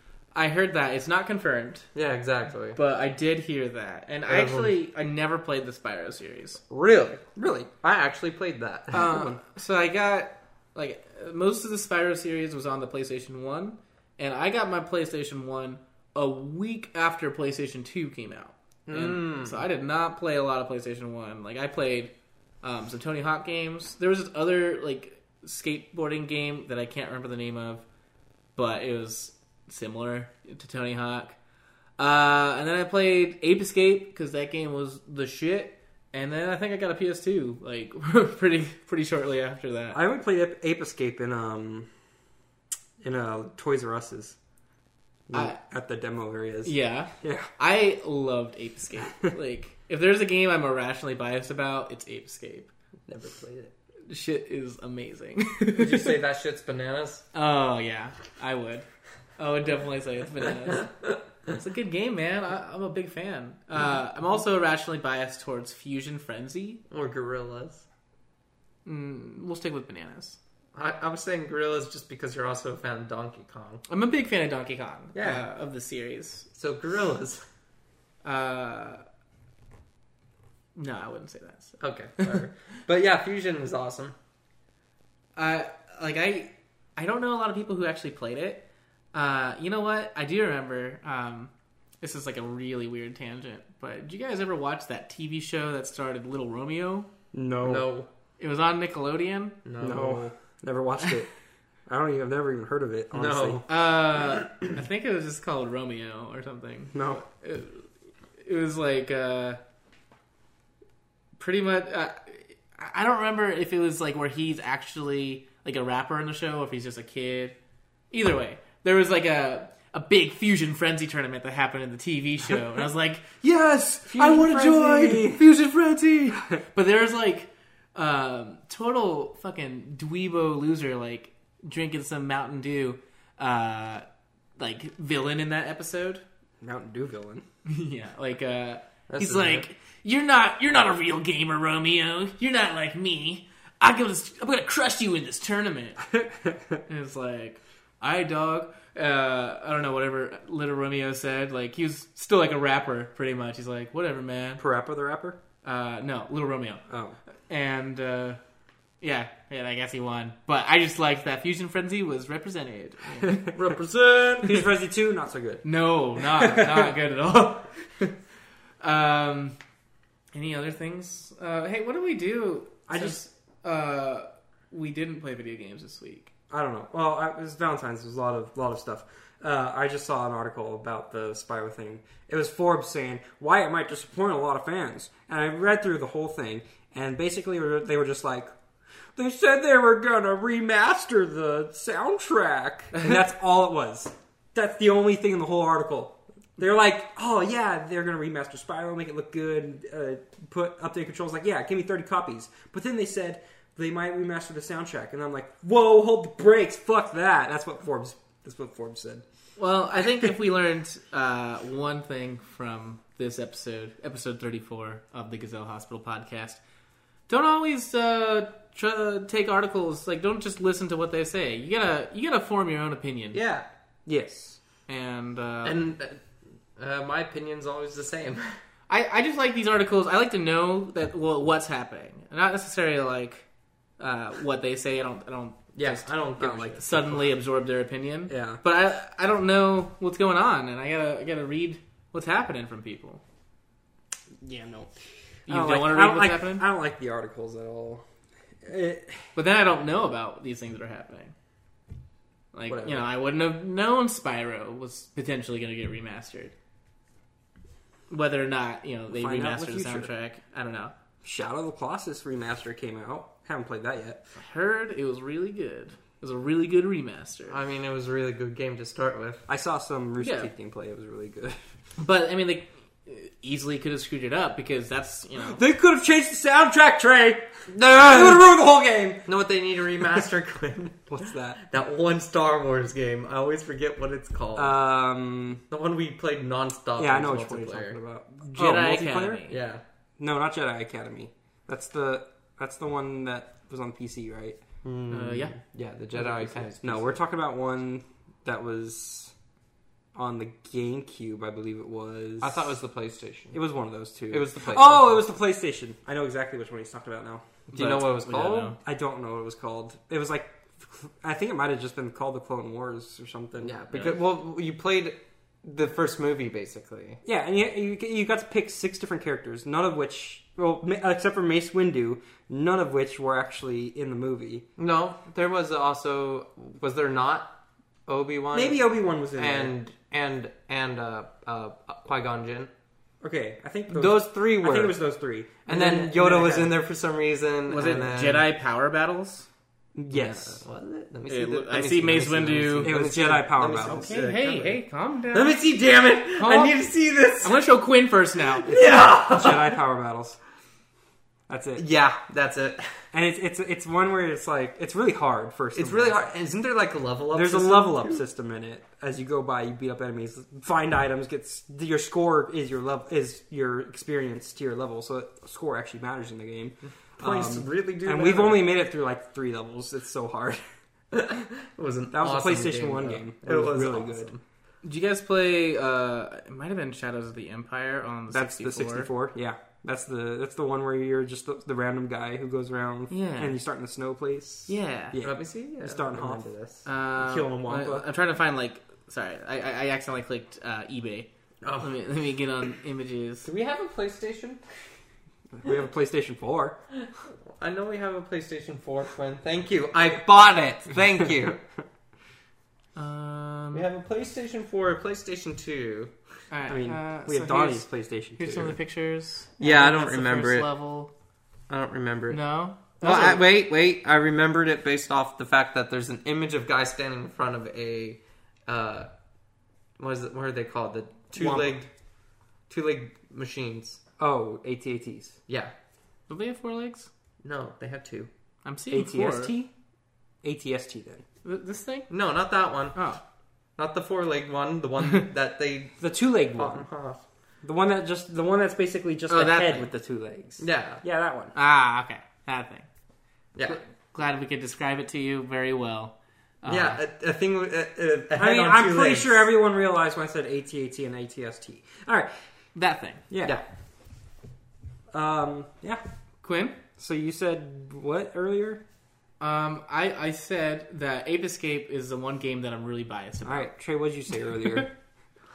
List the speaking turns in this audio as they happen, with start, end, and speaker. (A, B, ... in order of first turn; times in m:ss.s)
0:00.3-0:01.9 A
0:02.0-0:02.8 B
0:02.7-0:06.6 A
0:04.3-0:04.7 B
0:06.7-0:09.3 B
0:08.9-0:27.8 A
0:18.9-0:19.6 B
0:28.6-0:31.4 A
0:32.0-0:40.0 A
0:39.9-0:41.9 C
0:43.0-0:44.4 C
0:45.3-0:47.5 C
0:45.3-0:45.6 A
0:46.6-0:52.7 A
0:53.1-0:53.7 B
0:54.1-0:56.2 A
0:55.8-0:57.2 B
0:57.3-0:58.9 A
0:59.4-1:00.9 A
1:01.5-1:06.8 A
1:06.9-1:07.8 B
1:08.8-1:10.4 A
1:10.7-1:13.8 B
1:13.9-1:16.5 A
1:15.2-1:15.4 B
1:16.6-1:17.4 B
1:18.2-1:19.0 A
1:20.8-1:22.4 A
1:21.8-1:24.1 B
1:25.4-1:37.1 A
1:37.3-1:37.9 C
1:37.6-1:38.1 B
1:38.4-1:39.6 A
1:39.6-1:40.3 B
1:39.8-1:41.3 C
1:41.9-1:43.6 C
1:43.1-1:43.7 B
1:43.7-1:49.6 A
1:46.9-1:47.2 C
1:51.4-1:57.6 A
1:58.1-2:03.3 A
2:03.4-2:05.4 C
2:04.1-2:14.1 A
2:14.6-2:16.2 A
2:16.6-2:17.4 C
2:17.7-2:26.0 A
2:19.1-2:19.6 B
2:26.2-2:26.6 C
2:26.9-2:34.6 A
2:34.6-2:35.4 C
2:35.6-2:36.8 A
2:36.9-2:37.2 C
2:37.5-2:38.4 A
2:39.0-2:43.8 A
2:43.6-2:44.6 B
2:44.4-2:45.6 C
2:45.6-2:48.1 A
2:46.2-2:46.9 C
2:48.8-2:49.6 A
2:50.3-2:56.3 A
2:52.9-2:53.2 C
2:56.5-3:08.5 C
3:09.2-3:29.2 C
3:29.6-3:36.6 A
3:37.3-3:43.4 A
3:43.3-3:43.7 B
3:44.1-3:44.6 C
3:44.9-3:45.8 A
3:45.6-3:46.2 B
3:46.8-3:48.6 B
3:48.9-3:53.5 A
3:54.0-3:56.0 A
3:55.8-3:57.1 B
3:56.4-3:57.2 C
3:56.8-4:03.2 A
3:58.3-3:58.6 C
4:04.4-4:08.0 C
4:05.5-4:06.7 A
4:08.6-4:09.2 C
4:09.4-4:11.3 A
4:12.5-4:16.5 A
4:12.7-4:13.1 C
4:18.1-4:20.9 A
4:19.1-4:20.1 C
4:21.2-4:24.2 C
4:24.4-4:27.6 A
4:27.5-4:29.4 B
4:29.5-4:31.6 C
4:30.2-4:30.5 A
4:32.0-4:35.6 A
4:35.4-4:39.3 C
4:37.7-4:38.6 B
4:39.3-4:44.8 B
4:41.1-4:41.6 C
4:44.6-4:45.6 C
4:45.7-4:48.0 B
4:47.0-4:49.4 C
4:48.5-4:49.6 A
4:49.5-4:49.8 B
4:50.2-4:54.6 C
4:54.8-4:57.2 B
4:55.1-4:55.6 A
4:56.8-4:59.3 C
5:00.2-5:02.7 C
5:02.4-5:03.6 B
5:03.5-5:08.1 C
5:04.3-5:05.2 B
5:07.7-5:08.8 B
5:07.9-5:08.8 A
5:08.8-5:14.0 C
5:13.6-5:17.2 B
5:17.2-5:24.7 C
5:24.8-5:32.7 B
5:28.5-5:29.8 C
5:33.2-5:36.8 C
5:33.9-5:35.0 B
5:35.7-5:38.5 B
5:37.7-5:39.5 A
5:40.0-5:40.6 C
5:40.1-5:44.8 B
5:41.3-5:43.0 A
5:42.8-5:44.1 C
5:43.8-5:45.6 A
5:45.3-5:47.6 B
5:46.4-5:46.8 A
5:47.4-5:48.7 A
5:48.6-5:49.8 B
5:49.1-5:50.4 C
5:51.5-5:51.8 C
5:51.8-5:52.9 B
5:53.1-5:56.2 C
5:55.8-5:58.2 B
5:57.3-6:10.6 C
6:07.2-6:08.7 B
6:11.1-6:14.4 B
6:12.1-6:14.3 C
6:14.8-6:19.1 A
6:18.3-6:28.1 C
6:23.1-6:23.6 A
6:24.7-6:25.2 A
6:25.2-6:26.8 B
6:26.9-6:31.3 A
6:31.6-6:32.0 B
6:31.8-6:33.5 A
6:33.4-6:34.6 B
6:35.5-6:36.8 C
6:37.6-6:41.6 B
6:43.0-6:43.9 A
6:43.7-6:46.1 B
6:46.5-6:51.1 A
6:46.7-6:48.8 C
6:49.6-6:50.7 B
6:51.7-6:52.4 B
6:52.3-6:53.4 A
6:53.0-6:59.1 B
7:00.0-7:01.9 B
7:01.4-7:01.8 C
7:02.7-7:04.0 B
7:04.2-7:05.4 C
7:05.5-7:05.7 B
7:06.3-7:07.1 A
7:07.4-7:08.3 B
7:08.6-7:09.5 A
7:08.9-7:09.7 C
7:10.4-7:11.2 C
7:11.4-7:12.1 A
7:12.1-7:13.0 B
7:13.0-7:13.2 A
7:13.8-7:17.2 B
7:16.0-7:16.8 C
7:17.6-7:21.5 C
7:19.3-7:19.8 A
7:20.6-7:21.0 B
7:21.6-7:22.9 A
7:23.6-7:23.8 B
7:23.7-7:27.0 A
7:26.7-7:29.5 B
7:28.4-7:32.3 C
7:32.8-7:33.2 A
7:33.3-7:33.6 C
7:35.1-7:36.0 C
7:36.4-7:36.8 A
7:37.0-7:38.8 C
7:39.4-7:43.7 A
7:43.4-7:44.9 C